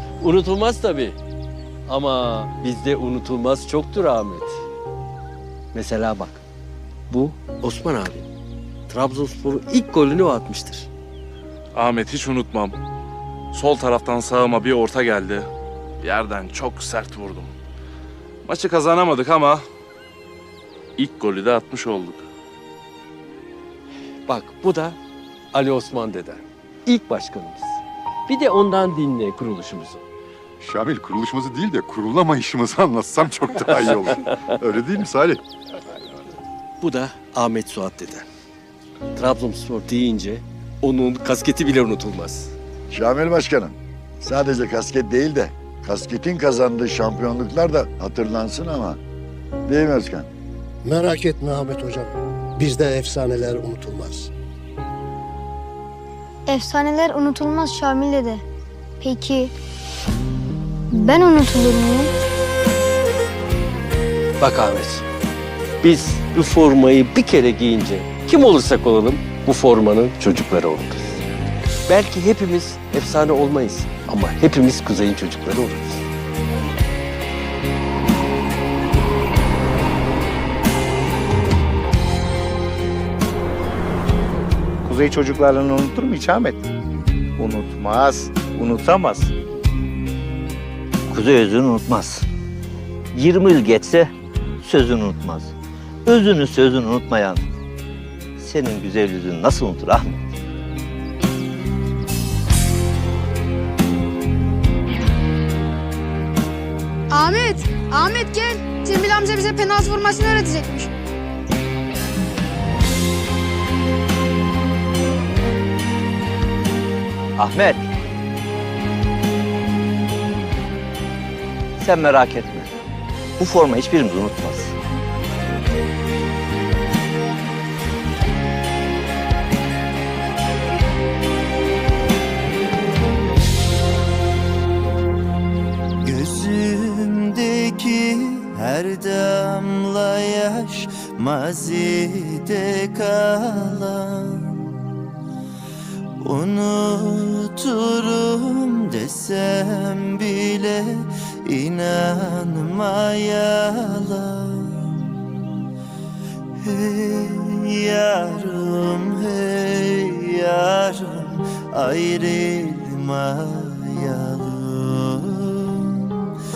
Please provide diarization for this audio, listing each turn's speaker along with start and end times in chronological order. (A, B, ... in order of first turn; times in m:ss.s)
0:00.2-0:01.2 A
0:01.9-0:04.6 A
0:05.7-0:06.4 A
0:07.1-0:08.3 A
0:08.9-0:10.9 A
0:11.7-0:12.8 B
0:13.5-0:15.5 B
0:16.0-0:17.5 B
0:18.4-0:19.6 B
0:21.0-0:22.2 B
0:24.3-0:25.0 A
0:25.5-0:30.0 A
0:30.6-0:35.4 C
0:36.8-0:38.2 A
0:39.1-0:42.5 A
0:42.9-0:49.0 D
0:49.6-0:50.3 D
0:50.8-0:54.3 E
0:56.5-0:58.4 F
0:59.0-0:59.5 F
1:00.9-1:02.1 F
1:04.4-1:05.0 A
1:05.8-1:11.2 A
1:11.8-1:16.0 A
1:24.8-1:26.6 G
1:27.4-1:29.3 G
1:31.1-1:32.3 H
1:33.1-1:35.5 H
1:36.0-1:37.4 H
1:38.4-1:40.2 H
1:47.1-1:50.9 I
1:57.4-1:57.9 H
2:01.8-2:02.7 H
2:03.4-2:04.7 H
2:16.0-2:24.7 J
2:26.2-2:35.0 J
2:36.6-2:46.3 J